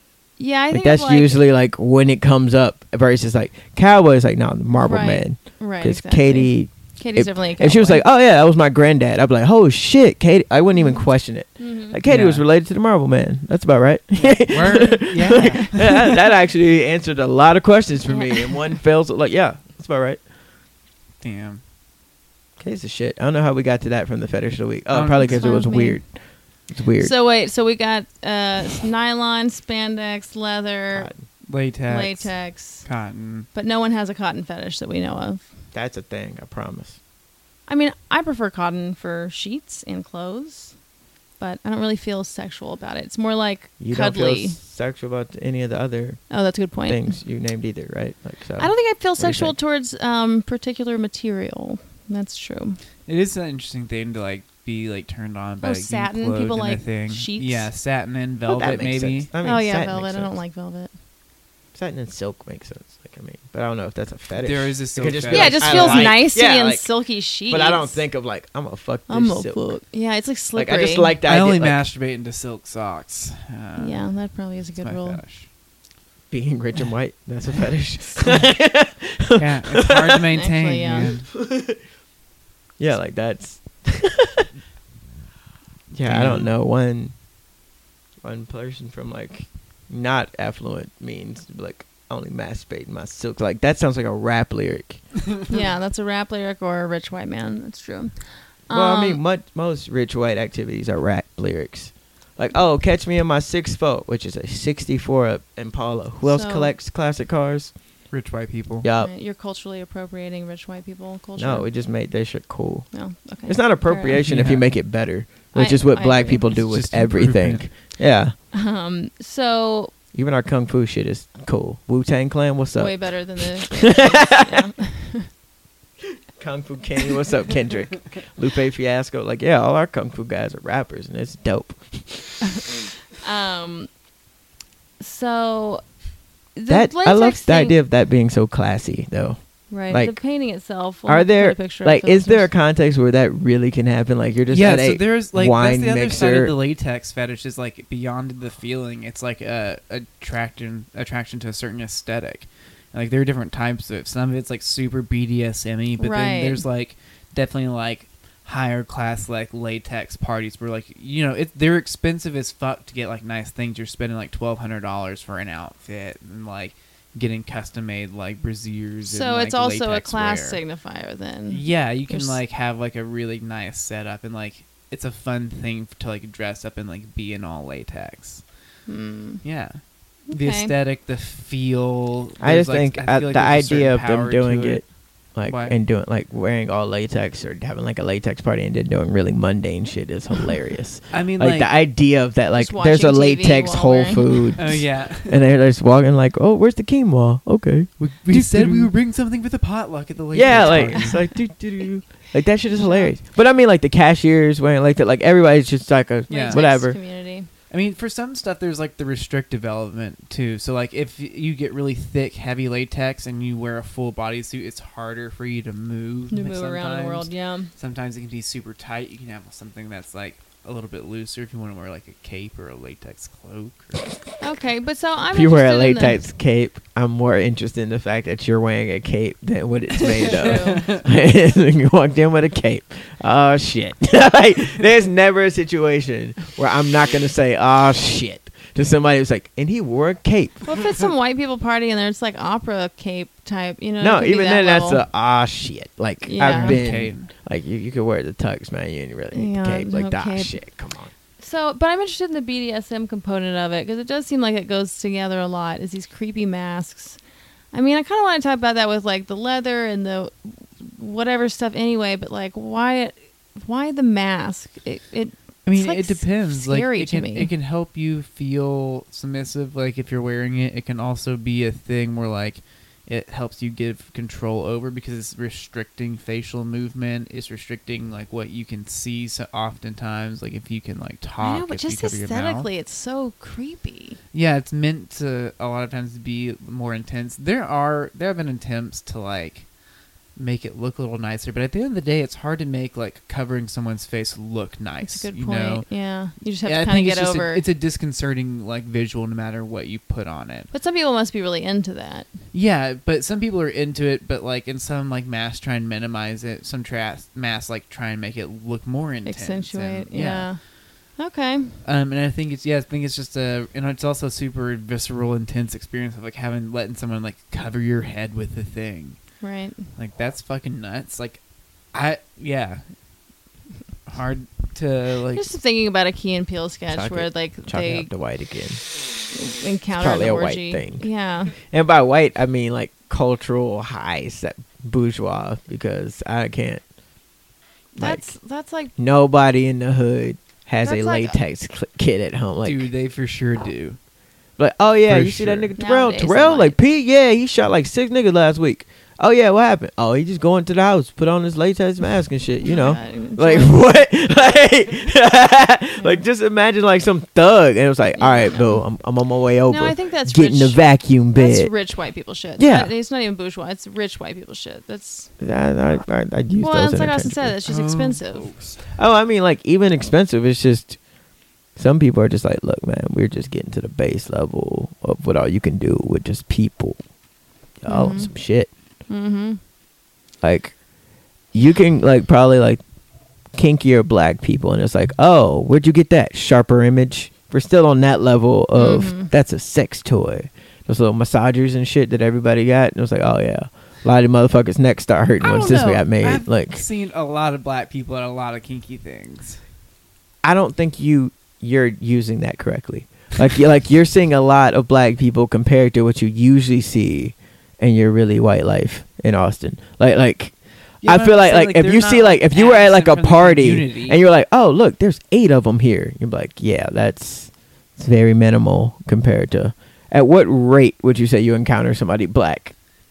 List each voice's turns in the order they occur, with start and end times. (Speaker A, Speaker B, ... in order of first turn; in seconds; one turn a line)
Speaker A: 0.4-1.4
Speaker B: 0.7-20.2
Speaker A: 4.8-8.0
Speaker A: 10.7-11.0
Speaker A: 11.6-12.0
Speaker C: 12.1-12.4
Speaker C: 14.2-16.2
Speaker A: 15.4-15.7
Speaker A: 18.1-18.8
Speaker C: 21.2-21.6
Speaker B: 22.6-26.1
Speaker C: 24.9-25.5
Speaker A: 25.2-26.0
Speaker B: 26.7-27.1
Speaker A: 27.0-31.1
Speaker B: 30.9-31.2
Speaker C: 31.5-33.5
Speaker A: 31.9-32.9
Speaker A: 33.5-35.4
Speaker B: 35.7-37.0
Speaker A: 37.7-40.7
Speaker A: 41.4-44.6
Speaker B: 43.8-46.2
Speaker A: 46.3-47.1
Speaker B: 46.9-49.5
Speaker A: 48.6-52.8
Speaker C: 53.1-59.3
Speaker A: 55.6-57.7
Speaker B: 58.5-60.3
Speaker A: 59.4-60.9
Speaker B: 61.7-66.9
Speaker C: 64.3-66.1
Speaker A: 65.3-68.0
Speaker B: 67.5-69.7
Speaker A: 69.1-71.1
Speaker B: 70.5-71.8
Speaker C: 71.2-74.1
Speaker A: 73.8-75.2
Speaker C: 74.8-75.5
Speaker B: 76.3-80.3
Speaker C: 79.4-81.3
Speaker A: 80.3-81.1
Speaker B: 81.0-81.8
Speaker B: 82.8-84.5
Speaker B: 85.9-87.1
Speaker C: 86.0-86.5
Speaker B: 88.2-95.0
Speaker A: 95.5-99.2
Speaker B: 98.7-107.7
Speaker A: 106.2-106.7
Speaker C: 108.1-108.9
Speaker B: 108.8-109.1
Speaker A: 109.0-111.7
Speaker B: 111.4-112.9
Speaker A: 112.9-114.2
Speaker B: 113.4-118.3
Speaker C: 114.2-114.7
Speaker A: 115.5-116.5
Speaker C: 116.5-117.7
Speaker A: 118.5-119.9
Speaker B: 120.1-124.7
Speaker A: 122.8-125.3
Speaker B: 126.4-132.4
Speaker A: 133.2-133.9
Speaker A: 135.0-135.8
Speaker A: 136.6-137.8
Speaker B: 136.7-139.4
Speaker A: 139.7-142.5
Speaker B: 139.9-140.2
Speaker B: 141.1-146.5
Speaker C: 144.5-170.6
Speaker A: 156.0-156.6
Speaker A: 169.1-172.4
Speaker C: 171.5-178.4
Speaker A: 178.9-179.4
Speaker C: 179.4-184.8
Speaker A: 180.3-180.7
Speaker B: 182.4-184.8
Speaker B: 185.3-198.9
Speaker C: 185.4-185.8
Speaker C: 191.1-191.7
Speaker A: 192.6-194.5
Speaker C: 194.6-195.4
Speaker C: 198.0-201.2
Speaker B: 200.3-207.0
Speaker A: 200.5-201.1
Speaker A: 202.7-203.1
Speaker C: 206.3-206.6
Speaker A: 206.3-207.5
Speaker C: 207.7-224.1
Speaker A: 216.3-217.7
Speaker A: 224.4-226.2
Speaker B: 225.3-240.6
Speaker C: 230.2-231.0
Speaker A: 230.2-230.8
Speaker A: 240.6-245.0
Speaker B: 244.0-251.1
Speaker A: 246.2-246.8
Speaker C: 246.4-247.3
Speaker A: 249.3-250.6
Speaker A: 251.4-257.2
Speaker A: 257.7-267.5
Speaker C: 265.6-282.7
Speaker A: 281.4-284.2
Speaker C: 284.3-289.7
Speaker C: 290.4-295.9
Speaker A: 295.0-297.6
Speaker C: 296.6-300.7
Speaker A: 300.7-302.3
Speaker C: 302.5-310.5
Speaker A: 309.2-310.6
Speaker A: 311.2-311.8
Speaker C: 311.8-319.2
Speaker A: 319.4-319.9
Speaker C: 320.0-321.4
Speaker C: 321.9-322.8
Speaker C: 324.1-325.5
Speaker A: 325.3-328.1
Speaker B: 326.9-328.8
Speaker A: 329.3-331.5
Speaker B: 330.0-336.8
Speaker A: 337.9-338.9
Speaker B: 338.0-338.3
Speaker B: 338.9-342.9
Speaker A: 340.8-341.4
Speaker C: 342.6-344.0
Speaker B: 344.6-361.7
Speaker C: 345.1-345.7
Speaker A: 345.8-346.8
Speaker A: 352.6-354.0
Speaker A: 358.1-358.8
Speaker A: 359.7-365.3
Speaker B: 362.6-362.9
Speaker B: 365.4-367.5
Speaker A: 366.6-368.5
Speaker C: 367.6-368.9
Speaker B: 368.9-371.0
Speaker B: 371.8-377.0
Speaker B: 377.8-378.7
Speaker A: 377.9-378.3
Speaker A: 379.1-379.6
Speaker B: 380.4-380.7
Speaker B: 381.5-382.8
Speaker B: 383.5-396.8
Speaker A: 388.8-389.3
Speaker C: 395.4-399.6
Speaker B: 400.4-410.5
Speaker C: 411.0-414.2
Speaker B: 411.0-422.7